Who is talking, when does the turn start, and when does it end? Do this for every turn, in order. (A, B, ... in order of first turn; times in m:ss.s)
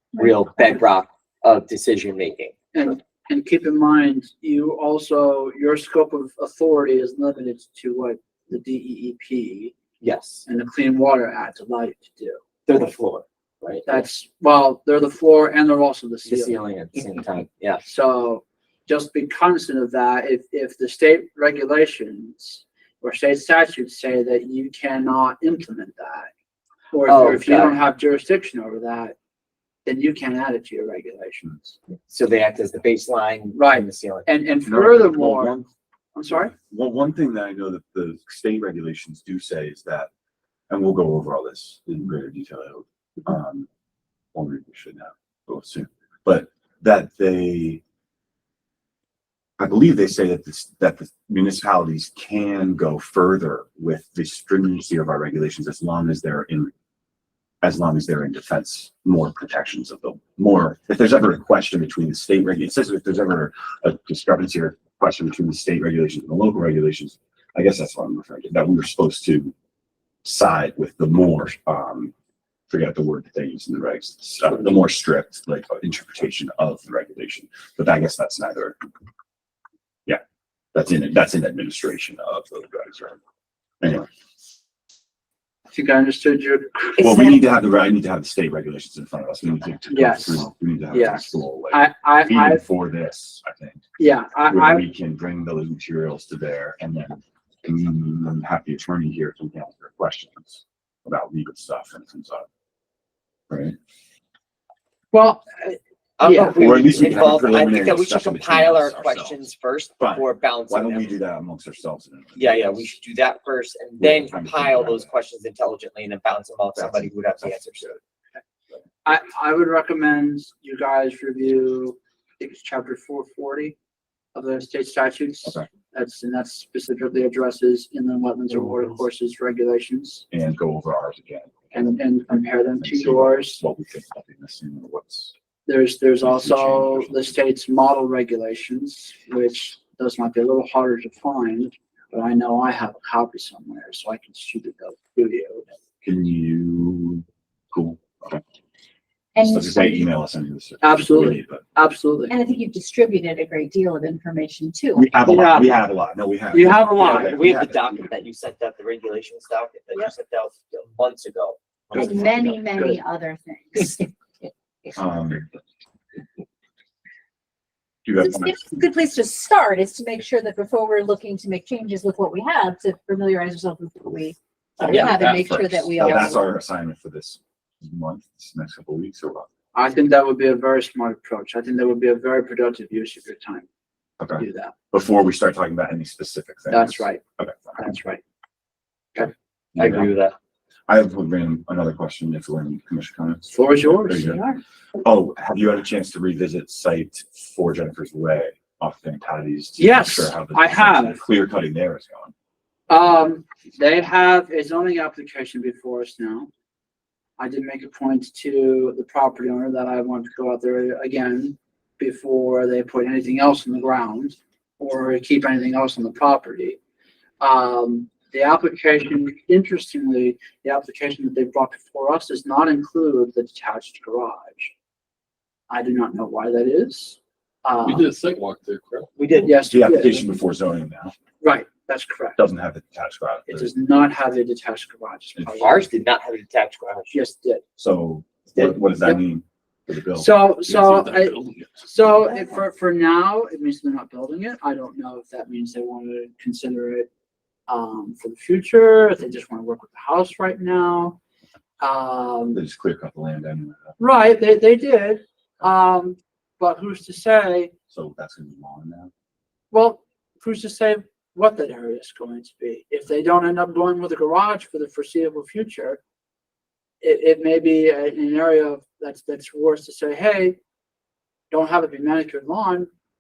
0:00.1-0:02.5 A
0:02.7-0:09.7 B
0:10.0-0:10.5 A
0:10.5-0:12.4 B
0:12.7-0:14.1 A
0:13.9-0:16.6 B
0:16.2-0:17.8 A
0:17.8-0:26.3 B
0:26.9-0:29.2 B
0:27.0-0:27.8 A
0:29.9-0:31.8 B
0:32.1-0:34.3 A
0:33.6-0:35.6 B
0:34.6-0:35.5 C
0:35.4-0:35.7 A
0:36.2-0:36.5 B
0:36.3-0:40.1 C
0:40.7-0:43.7 C
0:44.3-0:47.8 C
0:49.6-0:56.7 C
0:57.6-1:09.5 C
1:10.2-1:12.1 C
1:12.7-1:18.8 C
1:20.7-1:23.2 C
1:23.8-1:24.1 C
1:25.7-1:27.4 B
1:27.0-1:33.8 C
1:29.9-1:32.6 B
1:34.0-1:34.8 B
1:34.5-1:42.5 C
1:43.5-1:43.8 C
1:45.1-1:47.2 B
1:46.2-1:51.2 A
1:46.5-1:49.4 C
1:50.0-1:53.0 C
1:52.4-1:58.0 A
1:54.0-1:55.1 C
1:56.8-1:58.0 C
1:59.1-2:03.8 B
2:04.4-2:10.2 B
2:10.3-2:15.3 C
2:11.7-2:13.6 B
2:15.7-2:25.7 B
2:16.2-2:17.4 C
2:26.0-2:28.4 C
2:29.4-2:30.1 D
2:29.4-2:31.6 C
2:30.8-2:32.3 B
2:32.3-2:35.1 D
2:35.0-2:38.1 C
2:35.2-2:35.8 B
2:36.5-2:37.4 B
2:37.0-2:42.6 A
2:41.9-2:42.2 B
2:42.0-2:44.1 D
2:45.0-2:45.4 C
2:48.0-2:48.7 C
2:48.2-2:56.4 D
2:54.8-2:59.5 C
2:54.9-2:55.1 A
2:59.7-3:03.7 B
3:04.2-3:08.0 C
3:04.4-3:04.7 B
3:06.7-3:07.2 B
3:07.8-3:08.2 B
3:09.8-3:10.1 C
3:09.8-3:10.4 A
3:10.9-3:14.5 C
3:13.5-3:14.4 B
3:15.0-3:22.3 C
3:19.8-3:21.2 B
3:22.9-3:26.5 B
3:27.4-3:36.8 B
3:37.4-3:44.7 B
3:45.7-3:48.1 B
3:47.8-3:49.4 E
3:49.2-3:49.6 A
3:49.4-3:50.2 B
3:49.7-3:51.2 C
3:51.4-3:52.4 B
3:52.4-3:53.7 C
3:53.5-3:55.9 B
3:55.4-3:55.9 C
3:55.6-3:57.1 A
3:57.1-3:57.6 B
3:57.8-4:00.5 C
4:00.2-4:07.1 B
4:00.6-4:02.1 E
4:07.7-4:11.2 B
4:11.8-4:12.6 B
4:12.5-4:14.0 C
4:14.0-4:17.7 B
4:17.9-4:19.1 C
4:19.7-4:26.0 B
4:27.0-4:30.6 B
4:31.5-4:32.9 B